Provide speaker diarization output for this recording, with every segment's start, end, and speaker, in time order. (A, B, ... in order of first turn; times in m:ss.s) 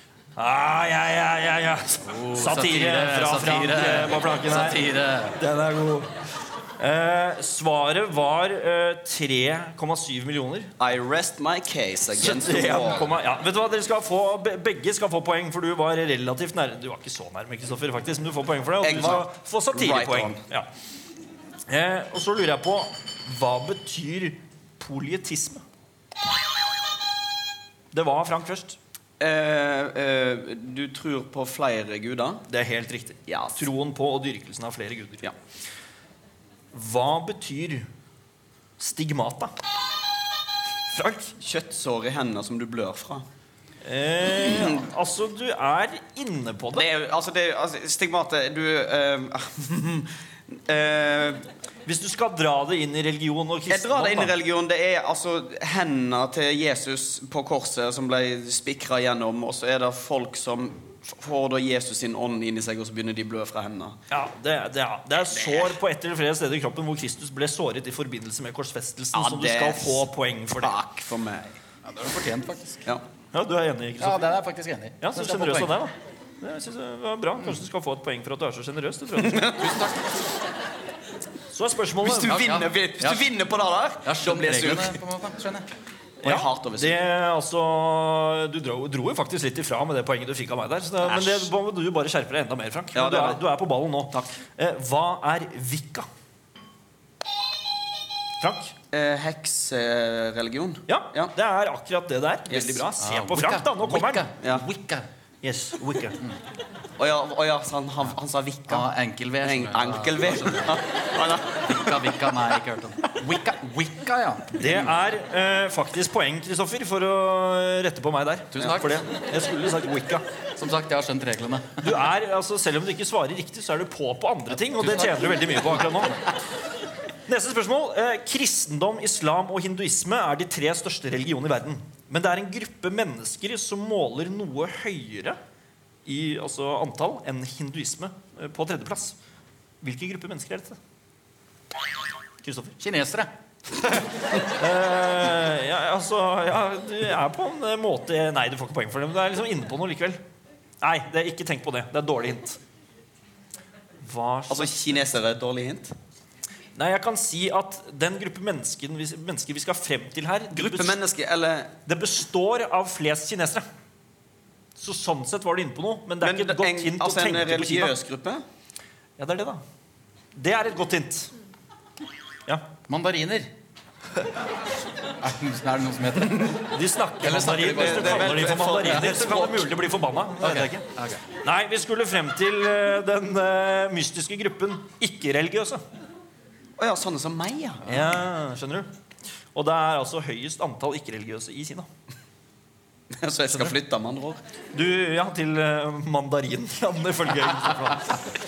0:00.4-0:06.1 A
0:02.0-0:05.4 B
0:06.8-0:10.7 A
0:10.8-0:13.1 C
0:12.2-0:20.7 A
0:18.8-0:20.4 C
0:21.7-0:25.6 A
0:27.9-0:28.8 A
0:29.2-0:32.4 C
0:32.5-0:35.3 A
0:33.3-0:33.6 C
0:36.7-0:37.8 A
0:38.8-0:39.5 A
0:40.9-0:41.3 A
0:41.3-0:43.2 C
0:43.8-0:46.8 A
0:44.5-0:44.8 C
0:46.7-0:51.4 C
0:51.8-0:54.3 A
0:53.7-1:04.0 C
1:04.1-1:10.8 A
1:05.3-1:05.8 C
1:09.1-1:10.1 C
1:10.6-1:11.6 C
1:11.8-1:12.8 B
1:13.3-1:14.3 A
1:14.0-1:15.7 B
1:15.0-1:19.6 A
1:19.2-1:19.7 C
1:19.5-1:20.0 B
1:21.5-1:22.6 A
1:22.0-1:25.0 C
1:22.3-1:23.2 B
1:24.0-1:25.6 B
1:26.2-1:27.0 C
1:26.2-1:36.0 A
1:31.0-1:31.5 C
1:32.9-1:33.4 C
1:38.4-1:38.7 A
1:38.9-1:41.3 C
1:40.9-1:44.3 A
1:42.5-1:42.9 C
1:43.0-1:45.1 B
1:45.4-1:46.2 A
1:47.0-1:48.9 C
1:48.7-1:50.8 B
1:49.4-1:51.9 C
1:51.6-1:54.9 B
1:54.5-2:00.2 A
1:58.5-1:59.0 B
2:00.6-2:01.9 B
2:01.8-2:06.2 A
2:04.6-2:05.8 B
2:07.3-2:15.4 A
2:16.0-2:19.1 A
2:19.8-2:20.8 A
2:22.4-2:22.8 A
2:22.8-2:23.3 B
2:24.4-2:30.2 A
2:30.8-2:32.6 A
2:34.0-2:34.8 A
2:34.5-2:35.9 C
2:36.8-2:41.0 A
2:40.5-2:41.7 C
2:41.9-2:43.6 A
2:44.8-2:47.9 A
2:46.2-2:48.4 C
2:49.2-2:49.6 A
2:50.3-2:51.3 A
2:52.9-2:53.5 B
2:55.2-2:56.7 B
2:56.6-3:00.8 A
2:57.2-2:59.0 B
2:57.6-2:59.7 C
3:00.4-3:01.2 B
3:01.4-3:05.8 A
3:06.8-3:08.0 C
3:07.8-3:08.9 A
3:09.5-3:11.9 A
3:13.1-3:14.4 C
3:14.7-3:18.2 A